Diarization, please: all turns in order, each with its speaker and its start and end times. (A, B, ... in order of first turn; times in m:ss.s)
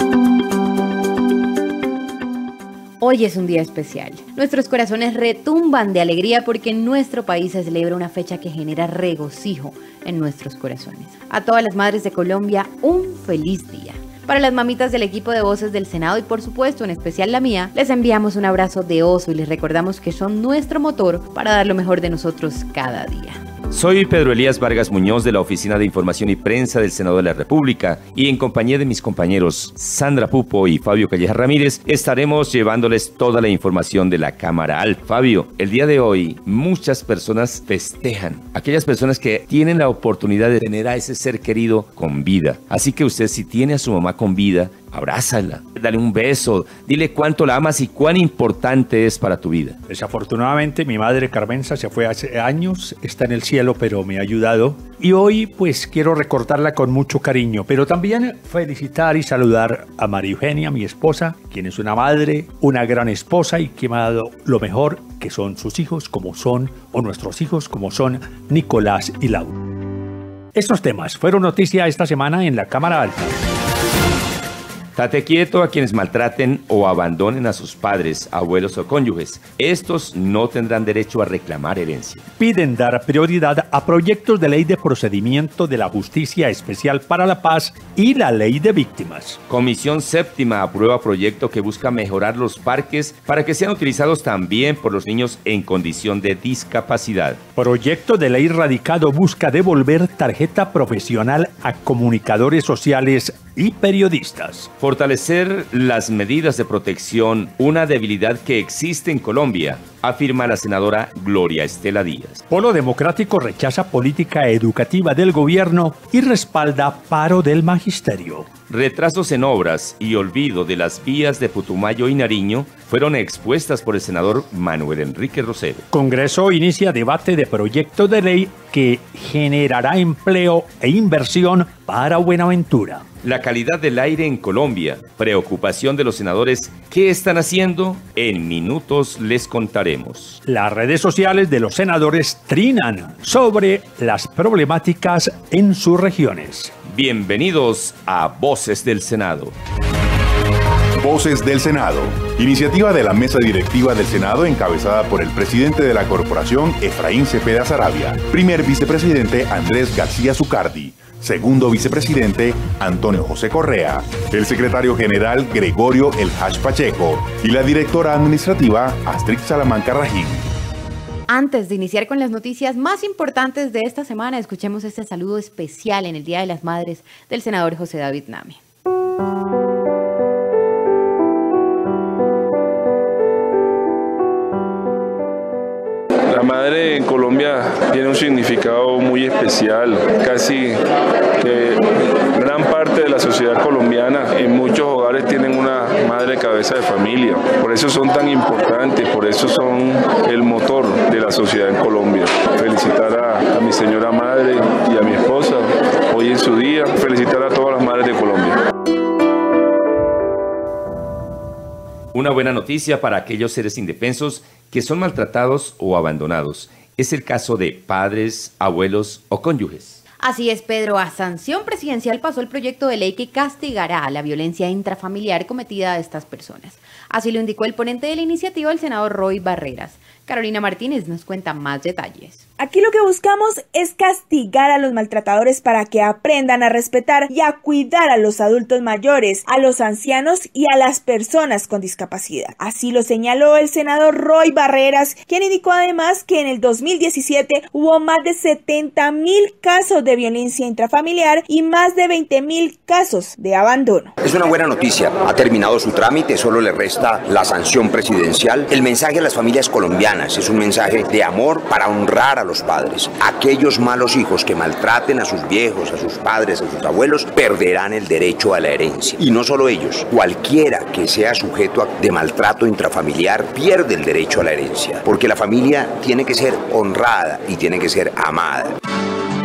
0:03.0-0:23.4 A
0:23.7-0:49.8 B
0:49.9-1:09.6 C
1:10.5-1:13.3 C
1:14.9-1:22.2 B
1:22.4-1:29.4 C
1:29.5-1:37.4 B
1:37.6-1:44.7 C
1:44.8-1:52.4 B
1:52.5-1:58.5 C
1:58.7-2:05.8 B
2:05.9-2:13.0 C
2:13.2-2:20.4 B
2:20.4-2:26.7 C
2:26.9-2:29.5 B
2:31.0-2:50.4 D
2:51.3-2:58.6 A
3:06.3-3:10.8 E
3:11.4-3:28.6 E
3:32.1-3:40.0 B
3:40.2-3:52.4 A
3:52.6-4:14.1 F
4:14.2-4:38.7 G